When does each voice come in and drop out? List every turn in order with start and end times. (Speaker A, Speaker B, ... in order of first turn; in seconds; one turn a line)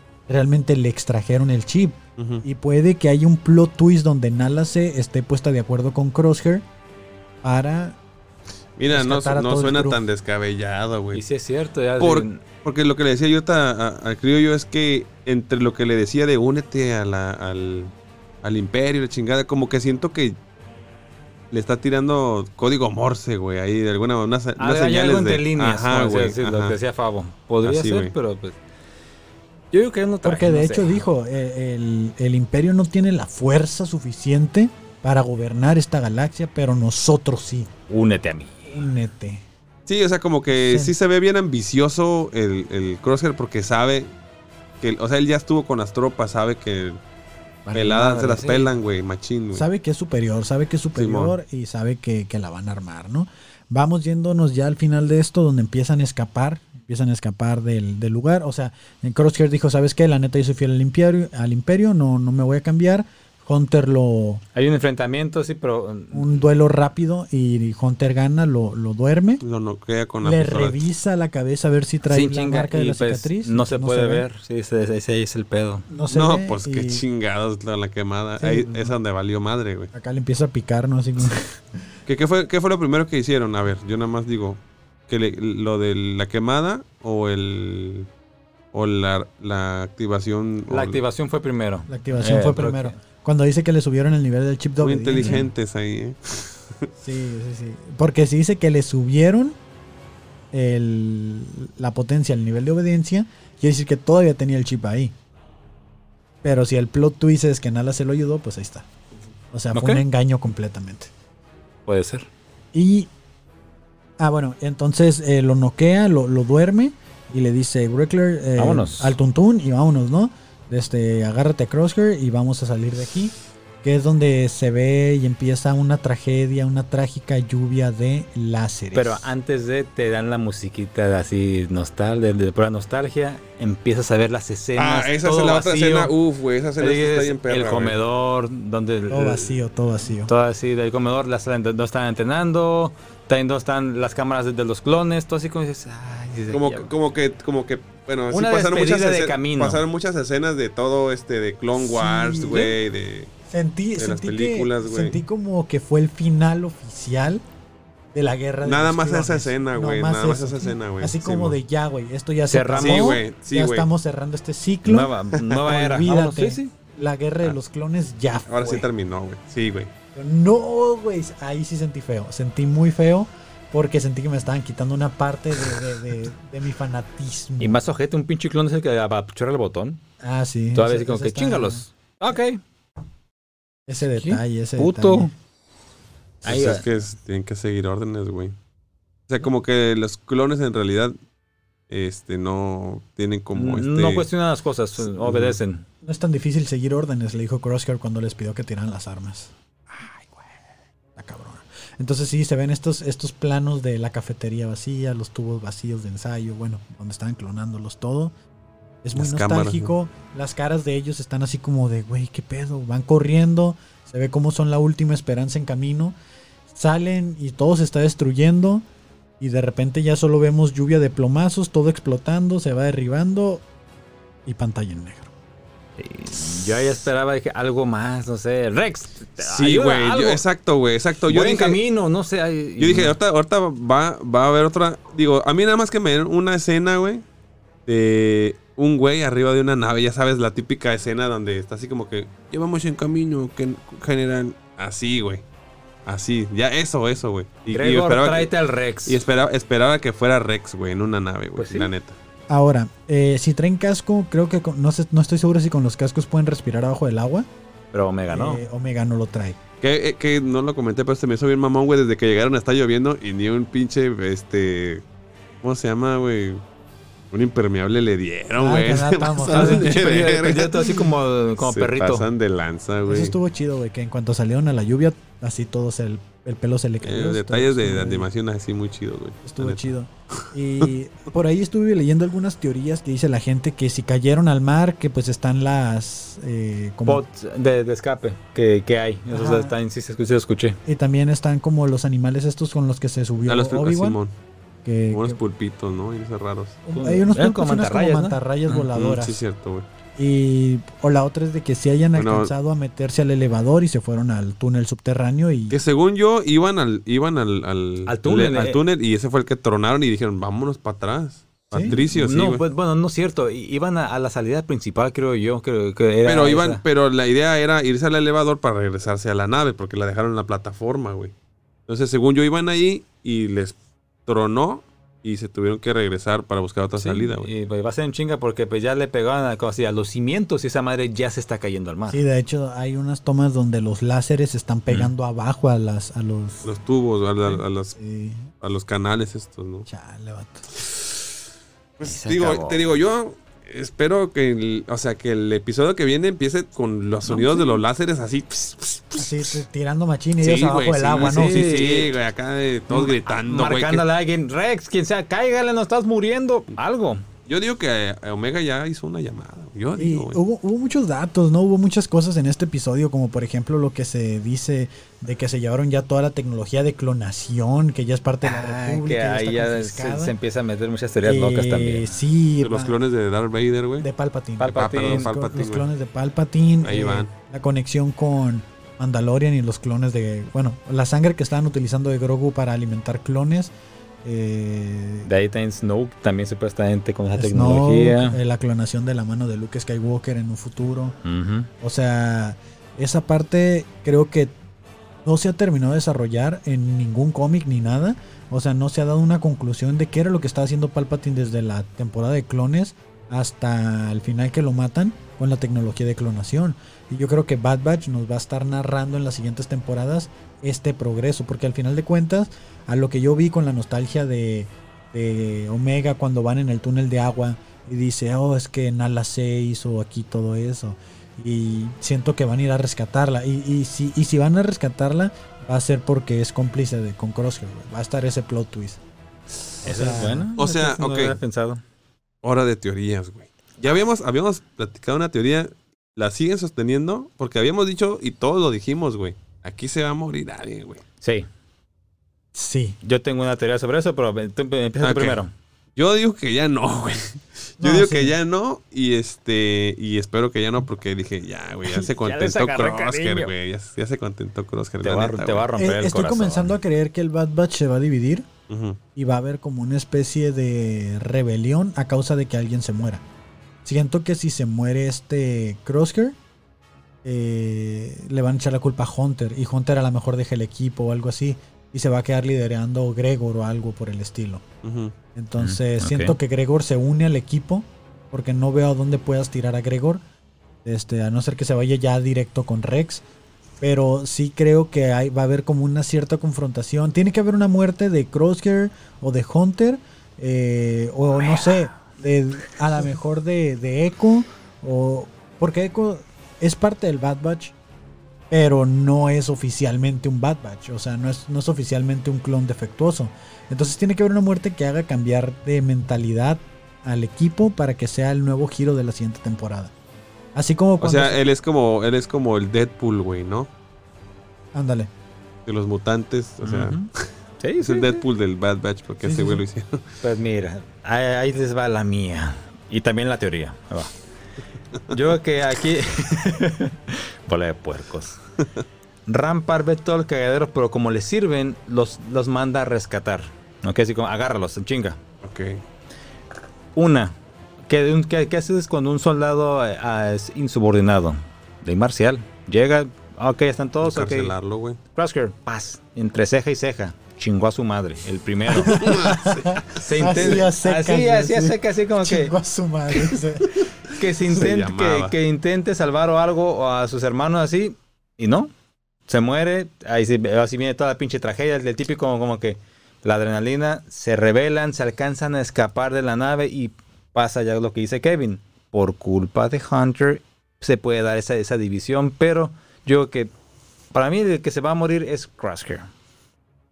Speaker A: 0.3-6.6
Speaker B: 2.2-2.4
Speaker A: 7.4-8.0
Speaker B: 8.8-11.2
Speaker A: 8.9-10.0
Speaker C: 11.1-12.4
Speaker B: 12.0-20.4
Speaker B: 21.5-26.8
Speaker C: 24.6-28.6
Speaker B: 27.6-28.1
Speaker C: 29.7-31.1
Speaker A: 30.2-37.7
Speaker C: 37.9-38.7
Speaker A: 38.7-39.4
Speaker B: 39.9-44.1
Speaker A: 40.5-40.9
Speaker B: 44.8-47.0
Speaker C: 47.7-48.7
Speaker B: 47.7-49.6
Speaker A: 47.7-48.2
Speaker A: 49.5-64.4
Speaker B: 50.9-51.4
Speaker C: 64.5-66.5
Speaker A: 66.1-69.4
Speaker B: 69.4-70.8
Speaker A: 70.2-74.2
Speaker C: 72.0-75.9
Speaker A: 75.9-77.0
Speaker B: 76.1-79.9
Speaker A: 78.4-78.9
Speaker A: 79.9-81.5
Speaker B: 82.1-88.1
Speaker B: 88.7-91.0
Speaker C: 90.7-93.0
Speaker A: 91.9-95.5
Speaker B: 94.8-96.9
Speaker C: 95.2-95.5
Speaker A: 97.0-99.5
Speaker A: 100.5-105.1
Speaker A: 106.4-108.8
Speaker A: 109.5-111.1
Speaker C: 109.7-110.0
Speaker C: 111.9-112.3
Speaker A: 112.7-113.1
Speaker A: 114.2-129.3
Speaker C: 118.6-119.1
Speaker C: 128.9-136.1
Speaker B: 134.8-138.0
Speaker C: 136.8-139.6
Speaker A: 139.1-140.3
Speaker C: 140.2-146.9
Speaker B: 146.5-153.3
Speaker C: 148.3-149.8
Speaker A: 151.7-152.8
Speaker A: 153.5-157.4
Speaker B: 154.0-155.2
Speaker A: 158.1-168.9
Speaker B: 158.6-161.6
Speaker C: 162.5-163.2
Speaker B: 162.8-163.9
Speaker C: 164.8-166.7
Speaker B: 168.5-169.9
Speaker A: 170.1-177.8
Speaker C: 177.6-180.0
Speaker A: 180.2-181.8
Speaker C: 180.7-182.6
Speaker A: 183.9-185.3
Speaker C: 184.1-185.3
Speaker C: 186.4-186.8
Speaker B: 186.4-188.5
Speaker B: 189.3-191.1
Speaker B: 191.9-194.3
Speaker C: 193.5-195.8
Speaker B: 195.1-195.6
Speaker A: 196.0-199.5
Speaker A: 201.2-208.3
Speaker A: 209.0-216.2
Speaker B: 209.2-209.9
Speaker A: 216.7-218.8
Speaker A: 219.4-223.6
Speaker A: 224.4-225.3
Speaker C: 226.0-230.4
Speaker B: 229.4-231.8
Speaker C: 231.2-233.2
Speaker B: 232.8-237.2
Speaker B: 237.9-245.4
Speaker B: 246.1-248.5
Speaker C: 247.7-249.2
Speaker B: 249.1-252.2
Speaker C: 251.6-251.9
Speaker A: 252.5-257.5
Speaker C: 257.9-258.6
Speaker A: 258.3-259.6
Speaker B: 259.8-265.0
Speaker B: 265.6-266.6
Speaker B: 267.3-273.3
Speaker A: 268.5-270.1
Speaker C: 269.5-272.2
Speaker A: 273.1-278.3
Speaker B: 277.0-280.9
Speaker A: 279.4-287.2
Speaker C: 287.1-290.8
Speaker A: 289.3-289.7
Speaker A: 290.8-294.2
Speaker B: 293.4-294.3
Speaker A: 294.8-295.4
Speaker B: 295.1-296.8
Speaker A: 296.9-299.4
Speaker C: 296.9-298.4
Speaker B: 298.9-299.9
Speaker A: 300.1-305.8
Speaker B: 302.1-302.5
Speaker B: 305.7-312.6
Speaker C: 308.1-308.8
Speaker A: 311.7-312.0
Speaker C: 311.8-316.8
Speaker B: 316.2-321.3
Speaker B: 321.9-327.5
Speaker C: 327.0-332.2
Speaker A: 332.1-336.7
Speaker B: 336.6-338.0
Speaker A: 337.5-338.5
Speaker B: 338.6-339.9
Speaker A: 339.9-340.7
Speaker B: 340.8-341.1
Speaker B: 342.0-349.6
Speaker C: 342.0-342.9
Speaker C: 347.2-347.7
Speaker A: 349.2-351.9
Speaker B: 350.4-354.0
Speaker C: 351.2-352.1
Speaker C: 352.9-357.2
Speaker B: 357.5-360.4
Speaker A: 359.9-370.3
Speaker C: 368.4-372.1
Speaker A: 371.2-372.9
Speaker B: 372.6-374.1
Speaker A: 374.0-385.3
Speaker C: 374.6-375.3
Speaker B: 374.7-375.9
Speaker B: 376.8-377.3
Speaker C: 385.2-388.4
Speaker A: 387.3-391.1
Speaker C: 391.2-391.7
Speaker A: 391.8-394.5
Speaker A: 395.2-429.0
Speaker A: 429.8-430.5
Speaker C: 429.8-431.8
Speaker B: 430.6-431.4
Speaker B: 432.4-441.0
Speaker C: 441.2-441.5
Speaker A: 442.5-443.0
Speaker C: 443.0-445.5
Speaker B: 445.0-445.4
Speaker B: 445.9-455.7
Speaker A: 447.8-448.4
Speaker C: 451.9-453.5
Speaker C: 455.0-456.7
Speaker A: 455.8-458.5
Speaker B: 458.7-459.0
Speaker A: 459.1-463.2
Speaker A: 463.8-466.4
Speaker A: 467.2-474.6
Speaker B: 474.8-475.1
Speaker A: 475.4-480.2
Speaker C: 475.6-476.4
Speaker A: 480.8-483.2
Speaker A: 483.8-497.7
Speaker C: 491.4-491.7
Speaker A: 498.5-509.9
Speaker A: 510.5-511.4
Speaker B: 511.0-513.7
Speaker A: 514.7-515.1
Speaker B: 515.6-517.2
Speaker C: 516.6-517.1
Speaker C: 517.6-518.2
Speaker B: 517.8-520.0
Speaker A: 519.2-519.6
Speaker C: 520.2-524.1
Speaker C: 525.1-528.4
Speaker C: 529.2-535.2
Speaker B: 535.4-535.8
Speaker C: 537.0-537.4
Speaker C: 537.9-544.5
Speaker B: 544.0-545.0
Speaker C: 545.1-549.0
Speaker B: 548.8-550.4
Speaker A: 548.8-553.8
Speaker C: 549.9-552.5
Speaker C: 554.1-558.7
Speaker B: 554.4-555.4
Speaker C: 559.3-573.5
Speaker C: 574.1-576.1